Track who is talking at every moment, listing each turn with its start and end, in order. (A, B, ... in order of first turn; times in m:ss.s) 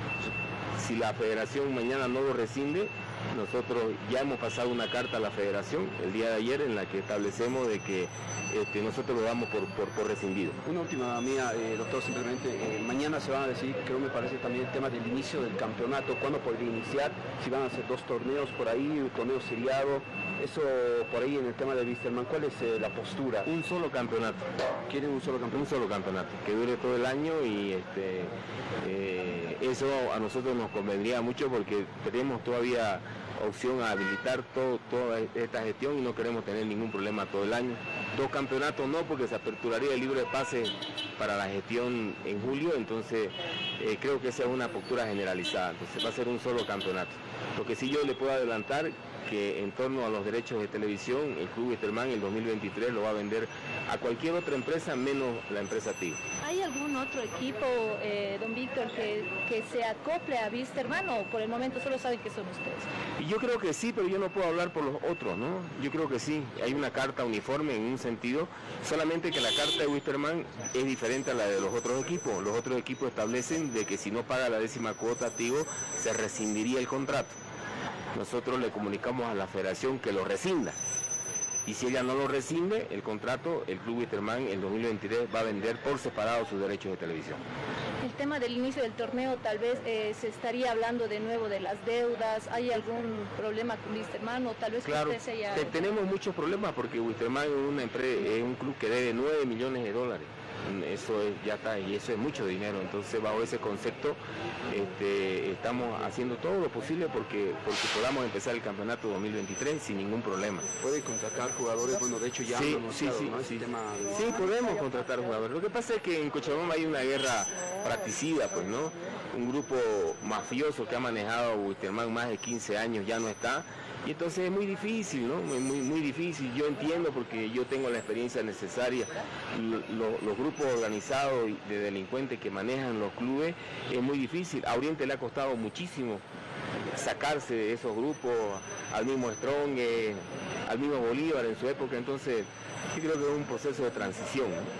0:00.8-0:10.6 A
0:10.6-0:23.5 B
0:23.4-0:24.4 A
0:24.9-0:25.6 B
0:25.5-0:56.2 A
0:56.4-1:02.9 C
1:03.2-1:17.4 A
1:18.1-1:20.8 A
1:21.6-1:27.4 A
1:28.0-1:35.8 C
1:34.8-1:44.2 A
1:44.7-1:50.7 A
1:50.8-1:54.3 B
1:52.4-2:16.2 A
2:16.9-2:24.7 A